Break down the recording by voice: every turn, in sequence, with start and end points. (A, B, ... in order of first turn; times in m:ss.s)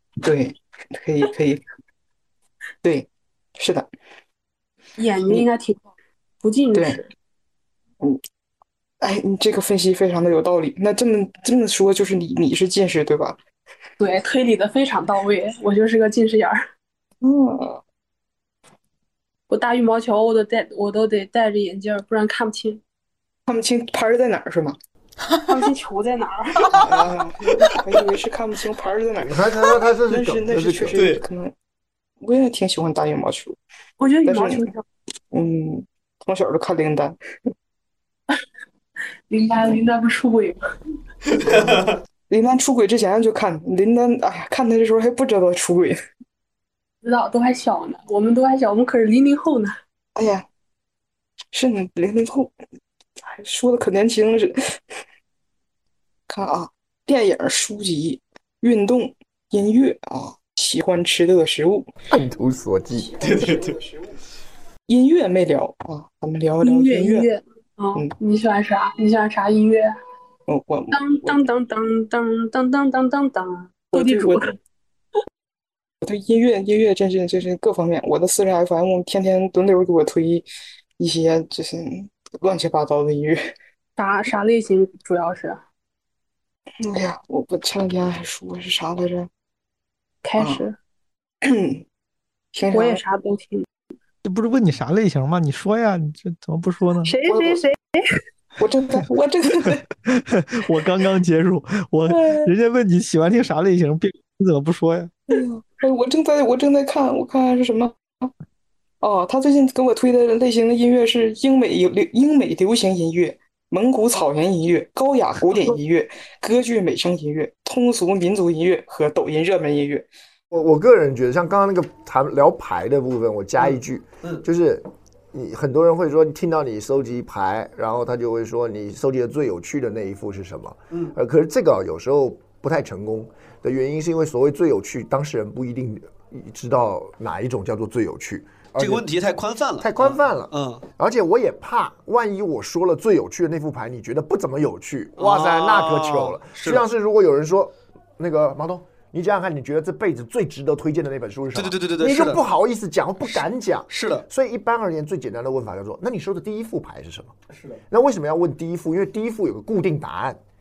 0:00.2-0:01.6 A
0:03.6-0:03.9 A
0:05.0-0:05.8 B
0:06.4-0:07.1 B
0:06.7-0:07.0 A
0:09.0-0:13.4 A
0:14.0-0:16.6 B
0:17.2-0:17.8 A
0:19.5-0:22.8 B
0:23.5-0:24.8 A
0:25.5-0:27.0 B
0:26.8-0:29.5 A
0:29.2-0:31.0 C
0:30.1-0:31.5 A
0:30.9-0:31.2 D
0:32.2-0:33.6 A
0:34.0-0:34.8 B
0:34.3-0:34.7 A
0:35.3-0:37.2 A
0:39.3-0:40.6 B
0:41.4-0:42.0 D
0:42.3-0:46.0 A
0:47.0-0:49.7 B
0:50.2-0:50.4 A
0:51.5-0:52.5 A
0:53.2-0:54.8 A
0:56.3-1:01.9 A
1:02.1-1:03.2 C
1:03.1-1:04.0 A
1:03.2-1:03.8 D
1:04.9-1:07.3 A
1:06.6-1:09.9 B
1:10.5-1:11.4 A
1:10.9-1:14.6 B
1:13.9-1:14.5 A
1:16.0-1:20.5 A
1:21.0-1:23.5 A
1:24.0-1:25.6 B
1:26.8-1:29.3 A
1:30.2-1:30.8 B
1:30.4-1:30.6 A
1:31.4-1:31.8 A
1:32.5-1:33.0 A
1:32.7-1:33.7 B
1:34.2-1:37.2 E
1:37.0-1:38.0 B
1:37.3-1:37.6 A
1:38.6-1:39.8 A
1:40.1-1:45.1 E
1:42.1-1:42.4 A
1:45.3-1:48.0 A
1:49.0-2:00.1 A
2:00.5-2:19.0 C
2:18.8-2:20.8 D
2:19.8-2:37.4 C
2:25.2-2:26.8 D
2:31.6-2:32.4 D
2:33.3-2:34.2 D
2:37.9-2:40.4 C